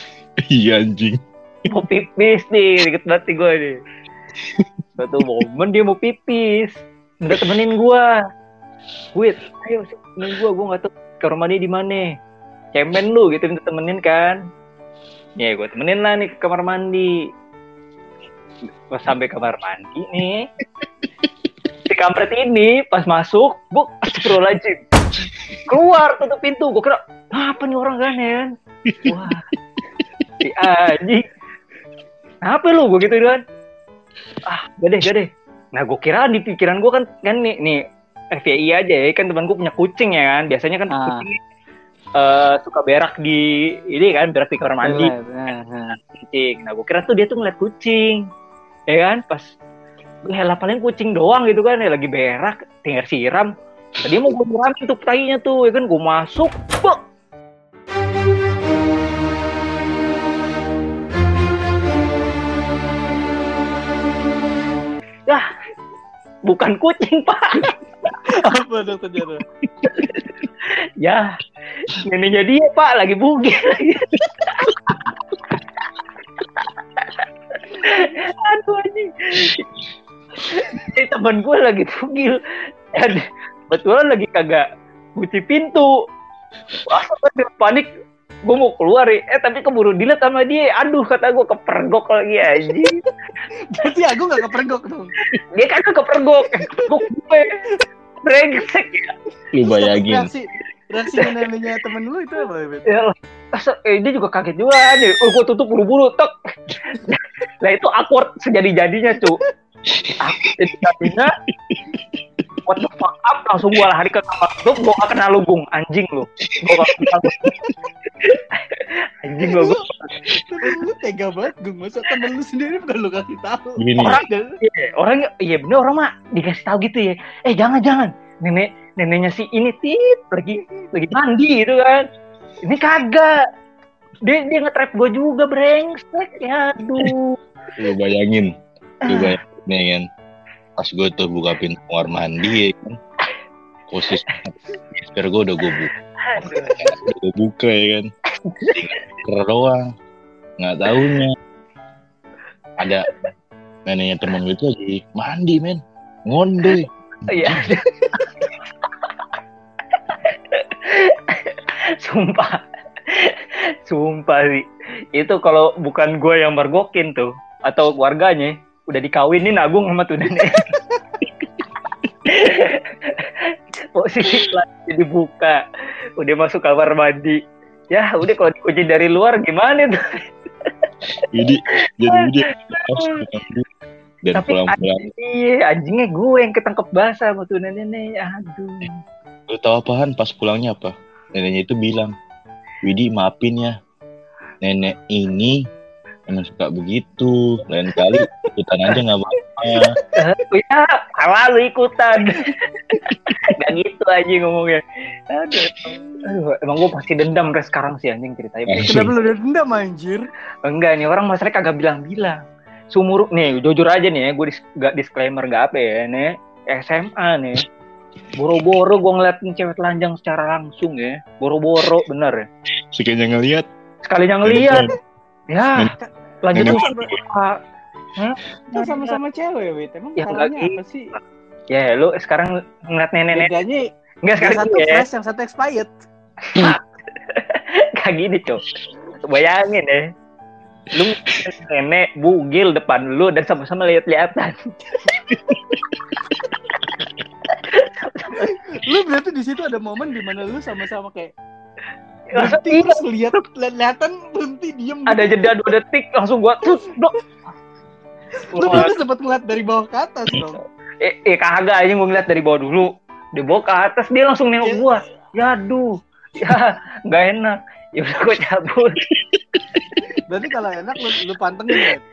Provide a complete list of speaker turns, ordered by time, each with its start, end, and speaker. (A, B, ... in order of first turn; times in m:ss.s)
0:00.4-0:01.2 A
0:01.7-0:03.8 B
0:04.4-0:04.7 A
0:05.0-0:08.1 B
0:09.1-0:12.1 B
0:12.7-0:14.4 B
0:15.4-0:17.1 B
0:18.9-0:20.5 B
0:21.9-0:24.8 B
0:25.3-0:25.7 A
0:25.7-0:28.5 B
0:28.9-0:29.4 A
0:29.0-0:29.5 B
0:30.0-0:30.2 A
0:30.4-0:31.3 B
0:32.4-0:33.4 B
0:34.4-0:41.4 B
0:40.9-0:41.3 C
0:42.2-0:45.1 B
0:44.8-0:46.0 C
0:46.0-0:48.3 B
0:48.9-0:49.5 B
0:50.2-0:57.0 B
1:06.4-1:07.8 B
1:08.2-1:09.4 C
1:09.9-1:11.3 B
1:11.8-1:15.0 B
1:16.6-1:19.7 B
1:20.4-1:22.4 B
1:22.9-1:24.6 B
1:25.2-1:25.9 B
1:26.8-1:27.9 B
1:28.5-1:33.0 B
1:32.6-1:33.0 C
1:33.5-1:35.1 C
1:35.3-1:37.6 B
1:36.5-1:37.0 C
1:38.2-1:39.1 B
1:39.6-1:40.3 A
1:39.6-1:42.9 C
1:42.9-1:46.3 B
1:46.8-1:49.4 B
1:49.9-1:51.2 A
1:50.2-1:51.3 B
1:51.7-1:52.0 A
1:52.6-2:00.1 B
1:56.4-1:57.7 A
1:59.4-2:04.6 C
2:03.8-2:04.2 A
2:04.0-2:12.0 B
2:12.6-2:13.4 B
2:14.2-2:17.4 B
2:17.8-2:18.5 A
2:19.0-2:20.1 A
2:19.1-2:19.4 B
2:20.8-2:23.0 A
2:23.9-2:25.9 A
2:26.2-2:27.0 B
2:26.4-2:28.1 A
2:28.4-2:29.0 B
2:28.7-2:29.9 A
2:30.6-2:31.4 A
2:30.9-2:31.2 B
2:32.8-2:33.1 A
2:33.9-2:37.8 A
2:37.3-2:38.5 B
2:38.0-2:38.3 C
2:40.2-2:50.8 B
2:52.3-2:55.6 B
2:56.2-2:57.4 B
2:57.9-3:01.3 B
3:01.2-3:03.7 A
3:02.1-3:03.3 B
3:04.2-3:05.1 A
3:04.4-3:09.0 B
3:09.5-3:12.1 A
3:12.8-3:13.8 A
3:14.6-3:15.6 A
3:16.3-3:20.0 A
3:20.2-3:29.0 B
3:22.4-3:23.1 C
3:25.8-3:26.2 C
3:28.7-3:29.1 A
3:28.8-3:30.3 C
3:30.7-3:32.4 B
3:32.9-3:37.6 B
3:38.4-3:42.4 B
3:42.9-3:43.7 A
3:44.1-3:45.0 B
3:44.4-3:44.9 A
3:45.5-3:47.6 B
3:46.0-3:47.1 C
3:46.5-3:47.2 A
3:48.2-3:49.2 B
3:48.7-3:51.1 C
3:50.2-3:50.8 B
3:51.7-3:53.6 B
3:53.3-3:55.9 C
3:54.2-3:55.1 B
3:56.5-3:58.6 B
3:59.2-4:00.1 B
4:00.9-4:04.6 B
4:05.3-4:05.6 C
4:07.5-4:08.6 B
4:08.4-4:11.3 C
4:12.3-4:13.0 B
4:12.3-4:15.5 C
4:15.1-4:17.2 B
4:18.5-4:20.6 C
4:18.6-4:18.9 B
4:21.0-4:29.0 B
4:24.6-4:24.9 C
4:29.1-4:30.1 A
4:30.2-4:32.0 C